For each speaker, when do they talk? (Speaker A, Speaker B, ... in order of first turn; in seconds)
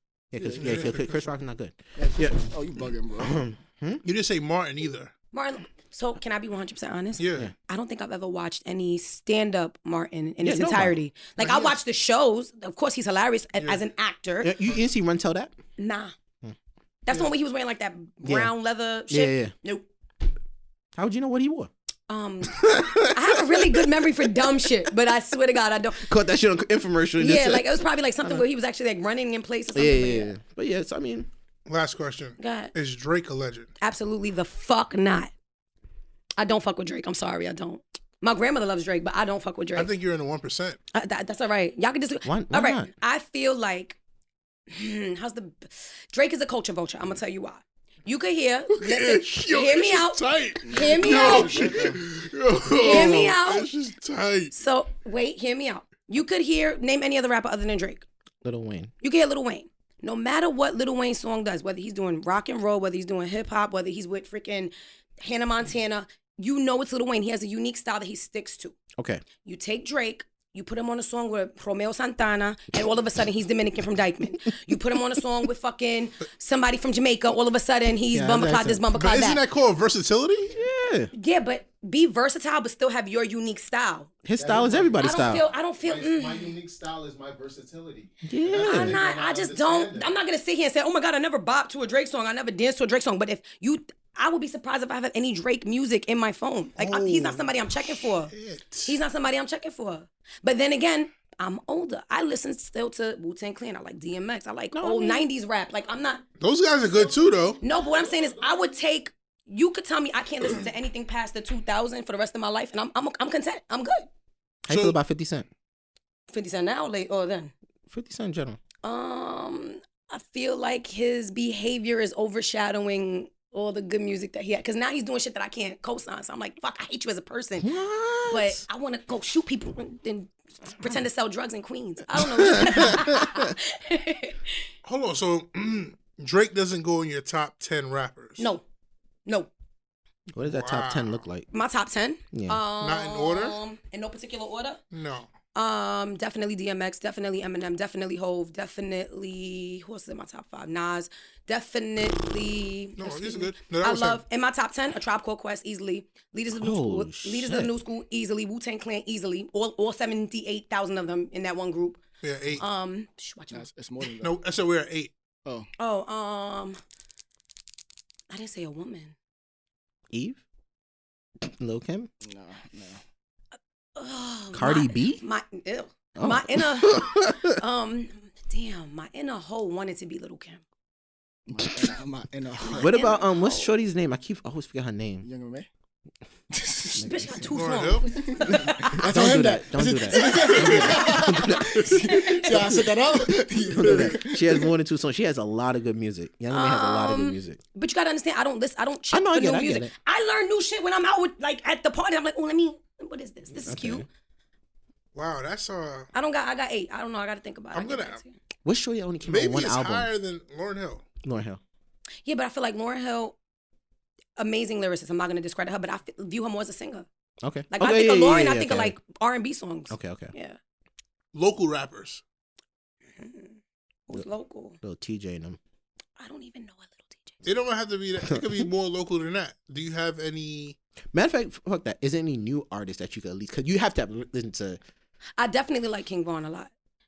Speaker A: 0.3-2.5, 3.2-4.0, 10.4-11.0, 14.4-15.5, 18.2-18.5, 19.1-19.5, 20.9-21.7, 22.5-24.1, 26.0-28.4, 29.7-31.3, 42.2-42.9, 58.4-58.9, 69.0-69.2, 78.1-78.8, 80.5-81.1, 84.2-85.4, 88.3-89.0, 104.7-105.3, 114.7-115.5, 117.9-118.6, 127.6-128.6, 132.2-133.5, 140.3-141.5, 142.3-142.6, 156.5-157.7, 170.1-170.4, 171.4-172.1, 174.5-175.2, 176.2-177.6, 182.8-185.3, 187.0-187.5, 188.5-192.0, 192.5-192.8, 193.7-197.6, 199.1-199.9, 203.6-204.1, 208.7-210.1, 211.2-211.6, 217.4-218.9, 219.9-220.3, 224.8-225.6, 228.2-228.7, 231.1-234.8
Speaker B: 0.4-0.9, 2.0-3.4, 50.6-52.0, 163.5-164.4, 172.2-173.0, 181.5-182.9, 185.2-185.7, 186.5-187.1, 188.2-194.7
Speaker C: 0.6-1.3, 4.0-5.1, 7.2-7.5, 11.4-11.8, 31.7-33.7, 39.8-40.8, 48.7-54.5, 78.9-80.5, 96.8-99.0, 106.4-107.6, 114.7-115.0, 134.8-138.5, 140.4-141.2, 142.8-143.6, 144.9-145.3, 153.0-154.2, 162.2-162.6, 164.2-165.1, 187.5-188.2, 190.7-190.9, 205.1-206.1, 207.7-208.2, 209.2-211.1, 221.3-222.2, 227.4-230.8
Speaker D: 5.3-14.5, 15.8-16.1, 17.1-19.9, 22.1-26.1, 27.2-30.4, 32.4-32.7, 33.8-35.3, 36.4-39.9, 40.9-44.0, 44.7-51.8, 52.8-53.7, 54.5-58.1, 59.0-68.8, 69.4-79.4, 81.1-84.1, 85.0-86.5, 88.6-98.3, 98.8-106.2, 107.6-114.1, 116.3-117.5, 118.8-127.7, 128.3-134.7, 138.4-138.6, 141.5-144.8, 145.6-162.0, 162.6-163.7, 165.8-166.8, 168.3-169.2, 174.0-180.6, 182.6-183.7, 186.9-189.1, 190.1-192.6, 196.5-204.1, 206.1-208.4, 212.2-213.4, 214.4-217.1, 217.7-220.6, 223.2-223.6, 224.1-224.8, 226.2-227.5, 235.4-236.7
Speaker E: 84.4-90.2